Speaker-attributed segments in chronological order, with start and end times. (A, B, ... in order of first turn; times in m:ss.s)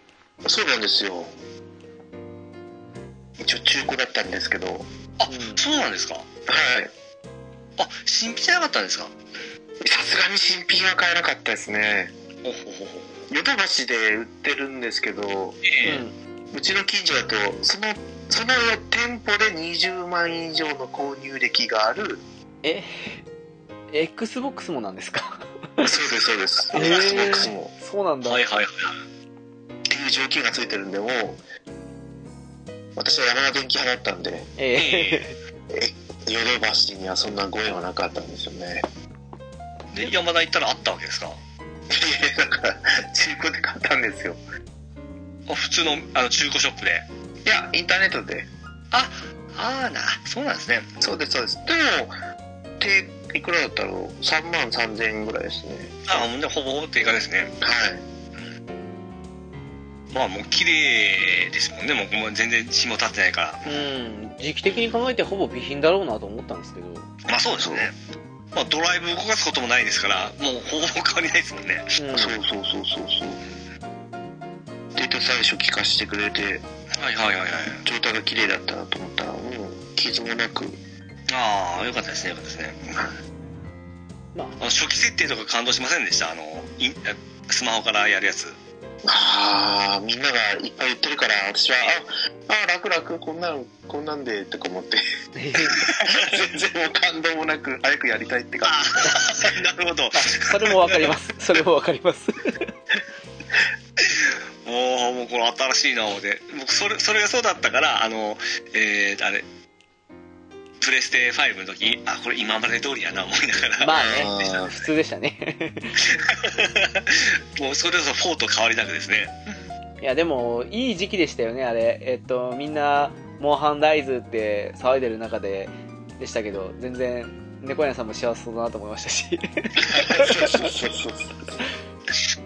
0:00.4-0:01.3 A
0:03.4-0:04.9 A
0:05.2-0:06.3 B
0:05.3-0:05.6 C
0:06.5-0:06.9 A
0:07.8-0:09.1 B
0:09.8-0:12.1 A
0:12.4-0:13.3 B
0:13.3-0:15.6 A
0:15.6-0:16.0 B
0:15.8-0:16.1 C
0:16.5-0:22.2 A
0:22.6-0:23.2 C
0:23.9-0:25.9 C
0:25.8-0:27.7 A
0:26.7-0:28.4 C
0:26.7-0:27.3 B
0:28.2-0:29.0 B
0:29.9-0:31.4 A
0:33.0-0:34.5 A
0:34.6-0:35.4 C
0:34.8-0:35.3 B
0:35.7-0:38.8 A
0:39.9-0:41.4 B
0:41.9-0:44.4 A
0:45.5-0:47.1 B
0:47.4-0:48.5 A
0:48.9-0:50.9 B
0:51.0-0:52.2 A
0:52.8-0:56.2 A
0:56.1-0:57.5 B
0:57.6-0:58.0 A
1:00.1-1:03.7 B
1:03.6-1:07.1 C
1:07.3-1:08.0 B
1:07.6-1:07.9 A
1:08.5-1:12.0 B
1:12.0-1:12.4 C
1:12.1-1:13.4 A
1:15.0-1:16.7 A
1:17.0-1:17.8 B
1:17.8-1:20.8 A
1:21.3-1:23.1 B
1:24.4-1:24.6 C
1:24.6-1:28.6 B
1:29.0-1:35.0 A
1:35.4-1:35.8 C
1:35.8-1:39.1 A
1:35.8-1:36.2 B
1:38.6-1:41.1 B
1:40.1-1:42.6 C
1:44.0-1:49.5 B
1:50.8-1:54.6 B
1:53.8-1:56.0 C
1:54.0-1:54.8 A
1:56.0-1:59.4 B
2:00.0-2:10.6 C
2:09.8-2:11.5 A